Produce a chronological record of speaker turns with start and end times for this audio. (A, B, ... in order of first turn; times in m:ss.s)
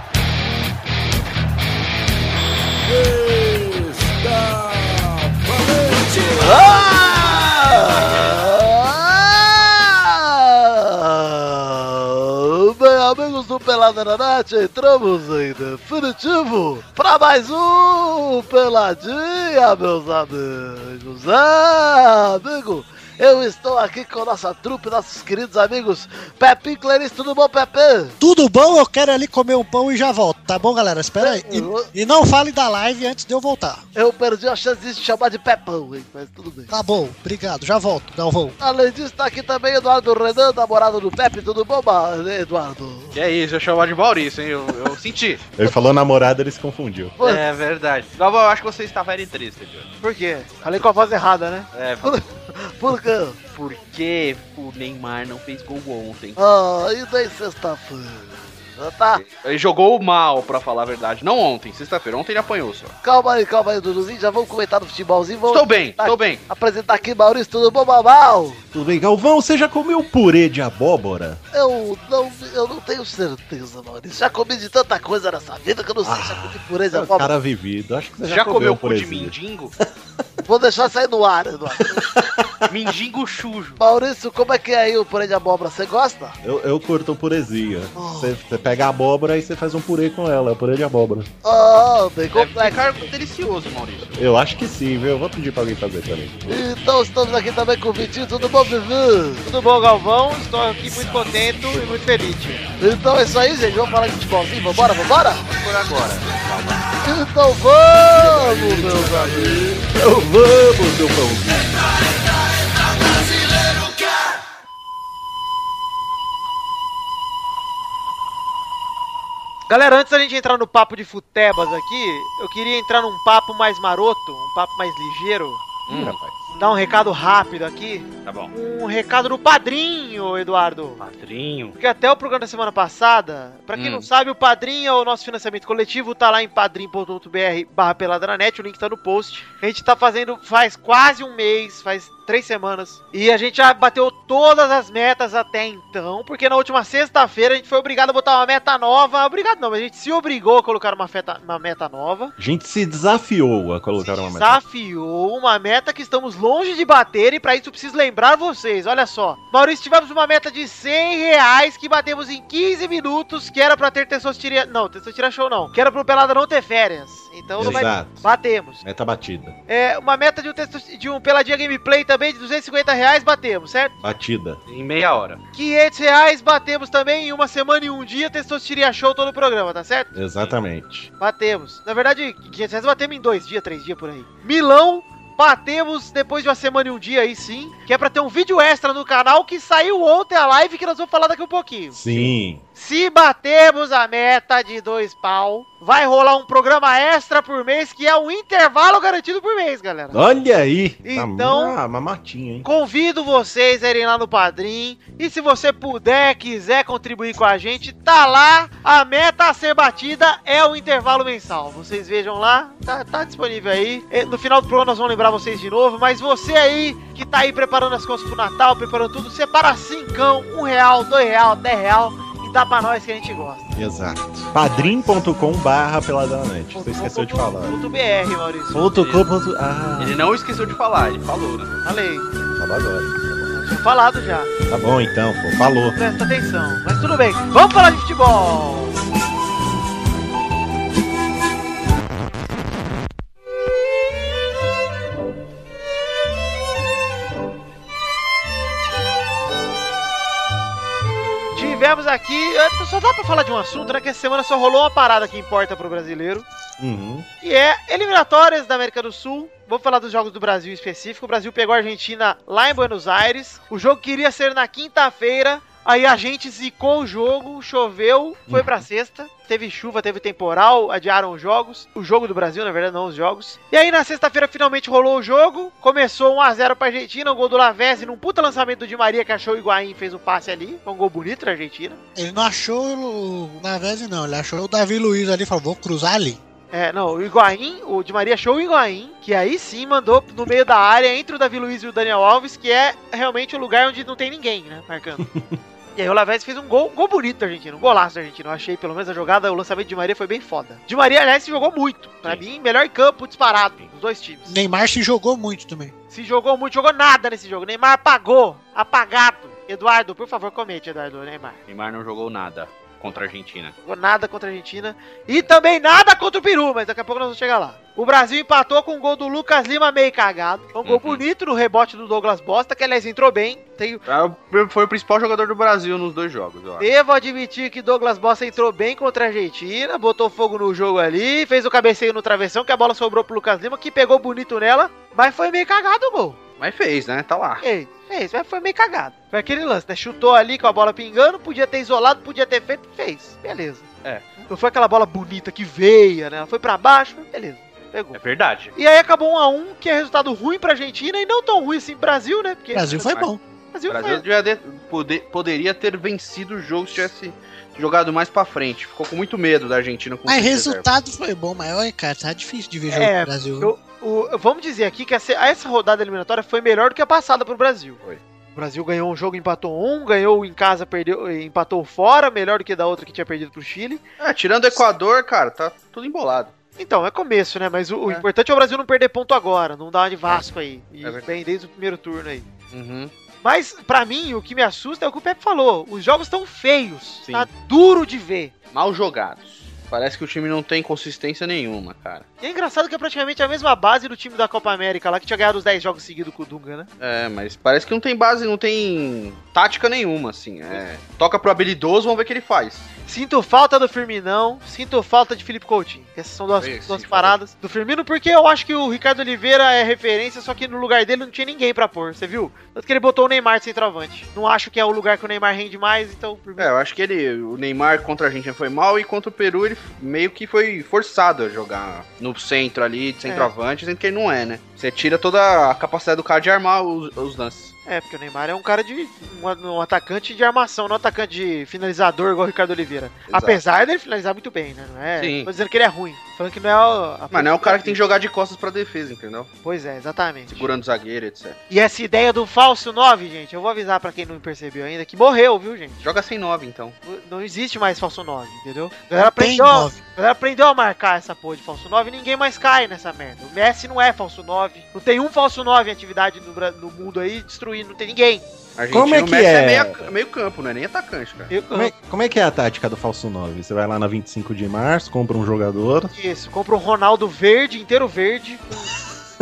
0:02.8-0:06.9 A
0:06.4-0:28.2 B
0:28.2-0:33.8 C
0:31.2-0:31.9 B
0:34.0-0:36.7 B
0:36.7-0:38.6 C
0:38.6-0:43.2 B
0:43.1-0:45.5 D
0:45.6-0:47.2 E
0:45.6-0:45.9 B
0:47.2-0:47.4 B
0:47.2-0:49.9 D
0:50.0-0:51.7 F
0:50.6-0:51.1 D
0:51.7-0:52.3 D
0:52.0-0:53.4 B
0:53.5-0:56.4 D
0:56.4-0:59.2 B
0:59.2-1:02.9 D
1:03.0-1:08.6 B
1:05.5-1:06.4 D
1:08.7-1:11.4 E
1:11.5-1:17.3 B
1:16.0-1:19.3 E
1:18.3-1:19.7 D
1:20.5-1:22.0 B
1:21.8-1:22.5 E
1:22.7-1:23.8 D
1:23.8-1:26.4 B
1:26.4-1:31.3 E
1:28.0-1:28.3 B
1:31.4-1:33.1 B
1:32.3-1:34.2 D
1:34.2-1:36.6 E
1:36.5-1:39.4 B
1:39.4-1:42.6 F
1:42.8-1:45.4 B
1:45.5-1:46.8 D
1:47.0-1:49.6 B
1:48.2-1:51.8 E
1:59.7-2:05.6 F
2:05.9-2:06.3 D
2:06.6-2:11.0 F
2:08.2-2:08.5 D
2:11.0-2:11.8 D
2:11.8-2:32.3 F
2:13.8-2:14.1 D
2:32.4-2:34.6 E
2:34.0-2:48.8 F
2:47.6-2:48.3 E
2:47.6-2:47.9 D
2:48.8-2:49.6 E
2:49.7-2:53.9 F
2:54.0-2:54.6 E
2:54.7-2:55.4 D
2:55.6-3:00.1 F
3:00.2-3:01.1 E
3:01.2-3:20.2 F
3:11.9-3:12.6 E
3:20.1-3:22.7 E
3:21.0-3:21.8 F
3:22.6-3:43.7 F
3:43.8-3:47.8 E
3:44.7-3:45.1 F
3:46.7-3:48.9 F
3:48.7-3:50.2 E
3:49.0-3:49.2 D
3:50.0-3:51.7 D
3:51.8-3:52.3 F
3:52.5-3:53.5 E
3:53.5-3:54.5 F
3:54.7-3:56.0 E
3:56.0-3:59.0 F
4:11.6-4:16.5 F
4:16.8-4:17.3 E
4:17.4-4:42.0 F
4:28.5-4:28.8 E
4:42.2-4:46.4 C
4:46.7-4:55.2 F
4:55.3-4:55.6 E
4:56.0-5:04.6 F
5:04.5-5:05.9 C
5:06.1-5:11.6 F
5:11.7-5:13.8 D
5:13.8-5:24.0 F
5:20.8-5:21.2 D
5:24.1-5:26.9 D
5:26.8-5:36.4 F
5:36.6-5:37.6 D
5:37.6-5:43.9 F
5:44.0-5:44.3 D
5:44.5-5:48.2 F
5:48.1-5:48.7 D
5:48.8-5:54.2 F
5:52.7-5:53.4 C
5:53.9-6:00.8 D
6:00.3-6:03.7 C
6:02.9-6:08.0 F
6:08.6-6:14.0 F
6:14.2-6:16.5 D
6:16.8-6:22.5 F
6:21.0-6:21.4 D
6:22.7-6:23.1 D
6:23.4-6:28.5 F
6:28.7-6:32.2 D
6:32.4-6:36.9 F
6:37.0-6:42.9 D
6:43.1-6:56.7 F
6:46.6-6:47.4 D
6:56.6-7:07.7 D
7:03.3-7:03.5 F
7:07.9-7:18.0 F
7:13.3-7:13.6 D
7:15.2-7:15.5 D
7:17.3-7:19.5 D
7:19.6-7:20.7 F
7:20.5-7:21.6 D
7:21.7-7:26.0 F
7:26.0-7:27.0 D
7:27.0-7:38.4 F
7:29.2-7:30.0 C
7:38.8-7:41.5 D
7:38.9-7:40.1 E
7:41.5-7:41.9 F
7:41.7-7:46.1 E
7:46.1-7:48.9 F